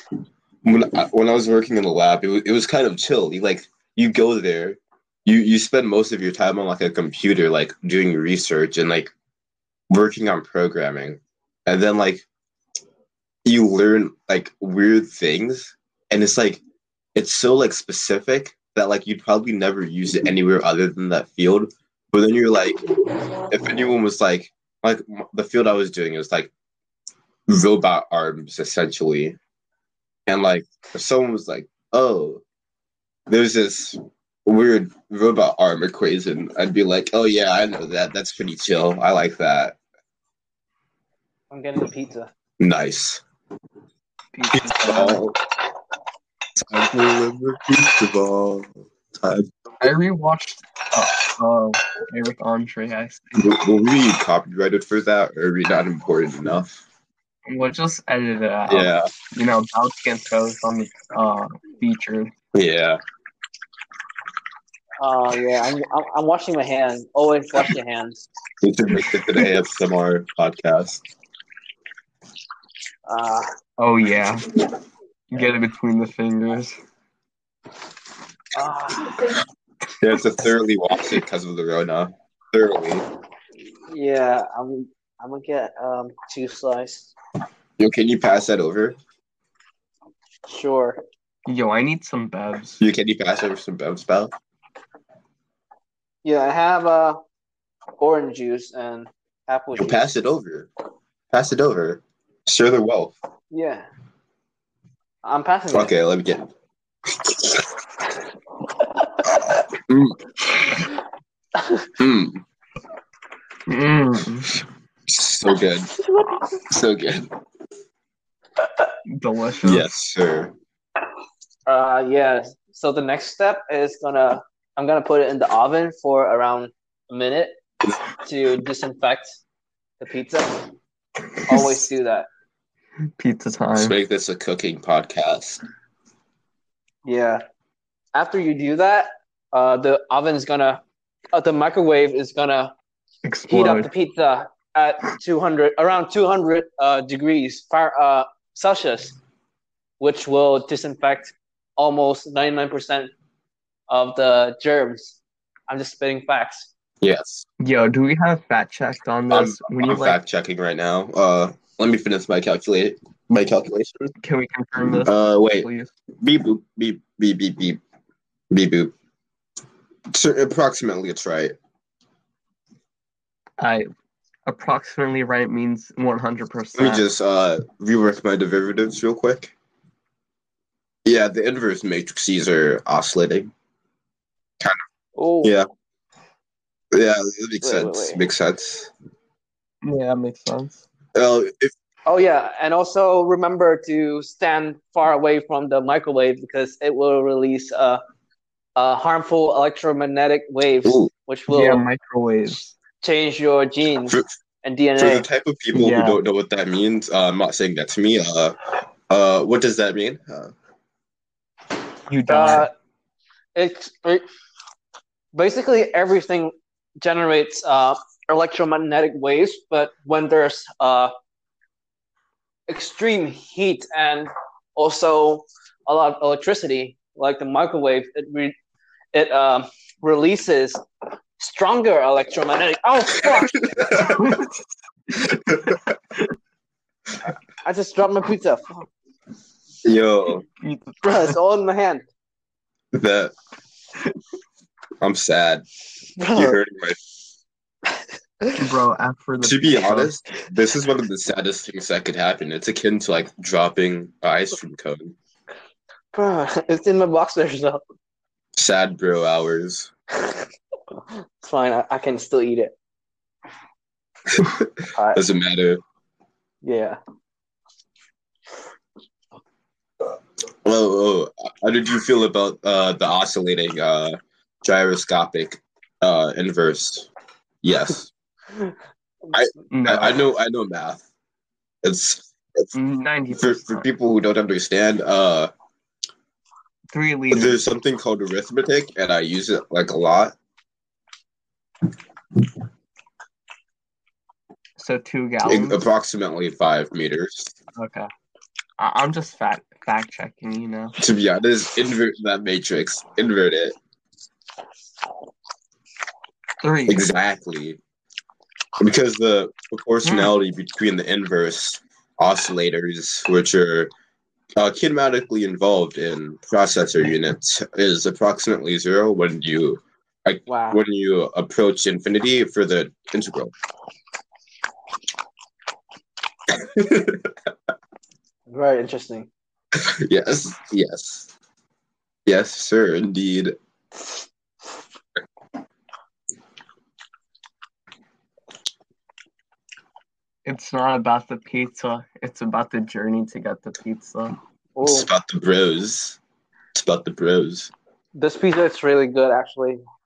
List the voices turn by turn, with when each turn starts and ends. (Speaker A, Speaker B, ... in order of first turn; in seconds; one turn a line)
Speaker A: 0.6-9.1
Speaker A: 9.9-12.2
Speaker A: 13.4-16.6
Speaker A: 17.1-22.9
Speaker A: 23.5-26.5
Speaker A: 27.5-29.4
Speaker A: 30.3-32.4
Speaker A: 33.3-39.8
Speaker B: 41.5-42.3
Speaker A: 42.6-43.2
Speaker C: 44.3-45.2
Speaker A: 44.5-45.4
Speaker A: 46.6-49.9
Speaker C: 49.8-53.4
Speaker A: 53.4-56.8
Speaker C: 57.5-62.3
Speaker A: 58.7-59.1
Speaker A: 62.5-63.0
Speaker B: 65.0-68.2
Speaker A: 68.6-71.0
Speaker C: 69.1-69.4
Speaker B: 73.0-73.5
Speaker C: 73.8-74.5
Speaker C: 75.3-76.8
Speaker B: 78.5-79.3
Speaker A: 80.0-83.0
Speaker B: 83.9-87.1
Speaker A: 87.8-89.0
Speaker B: 90.5-91.0
Speaker C: 91.5-92.8
Speaker A: 92.8-94.3
Speaker B: 96.2-97.2
Speaker B: 98.0-100.0
Speaker A: 99.7-100.7
Speaker A: 101.3-103.1
Speaker B: 103.5-103.9
Speaker B: 105.2-105.9
Speaker A: 105.7-106.5
Speaker A: 107.2-107.6
Speaker A: 109.9-110.2
Speaker B: 111.5-111.8
Speaker A: 112.0-112.4
Speaker C: 113.7-114.5
Speaker A: 115.1-115.9
Speaker B: 116.0-116.5
Speaker A: 116.7-117.3
Speaker C: 119.1-119.8
Speaker A: 119.6-120.5
Speaker B: 121.7-129.4
Speaker B: 130.0-130.7
Speaker B: 131.4-132.3
Speaker C: 131.5-131.8
Speaker C: 133.2-133.9
Speaker A: 133.8-135.6
Speaker B: 137.0-137.4
Speaker B: 138.1-140.8
Speaker B: 141.3-142.7
Speaker C: 143.2-143.9
Speaker B: 143.5-149.2
Speaker B: 150.0-153.1
Speaker B: 153.9-156.7
Speaker A: 157.0-157.4
Speaker C: 157.6-160.2
Speaker A: 159.3-164.1
Speaker C: 164.2-165.9
Speaker A: 165.0-165.7
Speaker A: 166.2-167.8
Speaker A: 168.5-168.9
Speaker A: 170.1-171.6
Speaker C: 173.6-173.9
Speaker C: 174.4-177.0
Speaker A: 176.8-179.5
Speaker A: 181.0-183.5
Speaker B: 185.2-185.5
Speaker A: 185.4-185.7
Speaker A: 186.9-188.9
Speaker B: 187.6-188.2
Speaker C: 189.8-190.8
Speaker A: 191.1-191.7
Speaker B: 192.1-198.0
Speaker B: 198.8-201.8
Speaker A: 200.8-201.1
Speaker C: 201.5-202.6
Speaker B: 203.0-205.2
Speaker A: 204.1-204.3
Speaker A: 205.0-208.6
Speaker C: 205.7-206.2
Speaker A: 209.1-210.5
Speaker C: 212.1-212.7
Speaker B: 212.3-212.7
Speaker B: 213.5-214.2
Speaker B: 215.3-221.1
Speaker B: 222.7-228.5
Speaker B: 229.1-230.8
Speaker B: 231.4-233.6
Speaker A: 233.4-234.4
Speaker C: 234.0-234.6
Speaker A: 235.2-235.8
Speaker B: 237.6-238.9
Speaker A: 239.8-240.4
Speaker C: 240.6-241.4
Speaker B: 241.0-242.1
Speaker A: 242.9-243.3
Speaker A: 245.0-245.6
Speaker B: 246.2-246.6
Speaker A: 246.3-247.0
Speaker C: 248.6-250.2
Speaker A: 249.4-255.1
Speaker B: 256.1-257.8
Speaker A: 258.6-259.9
Speaker B: 261.4-262.7
Speaker A: 264.3-265.8
Speaker B: 266.6-267.0
Speaker A: 270.6-277.1
Speaker A: 277.6-278.1
Speaker A: 279.3-281.1
Speaker C: 279.7-280.2
Speaker A: 281.8-282.7
Speaker C: 282.7-283.9
Speaker A: 283.3-285.5
Speaker C: 286.9-287.6
Speaker A: 287.3-290.3
Speaker C: 294.8-295.8
Speaker A: 295.4-297.5
Speaker C: 297.7-298.1
Speaker C: 298.8-300.9
Speaker A: 301.0-303.8
Speaker C: 306.6-307.0
Speaker A: 306.9-307.8
Speaker A: 308.8-313.9
Speaker C: 310.0-310.3
Speaker A: 314.6-323.5
Speaker B: 320.5-320.8
Speaker A: 326.5-327.3
Speaker B: 328.5-329.3
Speaker A: 329.8-331.3
Speaker A: 332.2-333.6
Speaker C: 340.4-344.4
Speaker B: 344.8-345.1
Speaker A: 344.8-346.2
Speaker A: 346.7-347.7
Speaker B: 348.1-349.8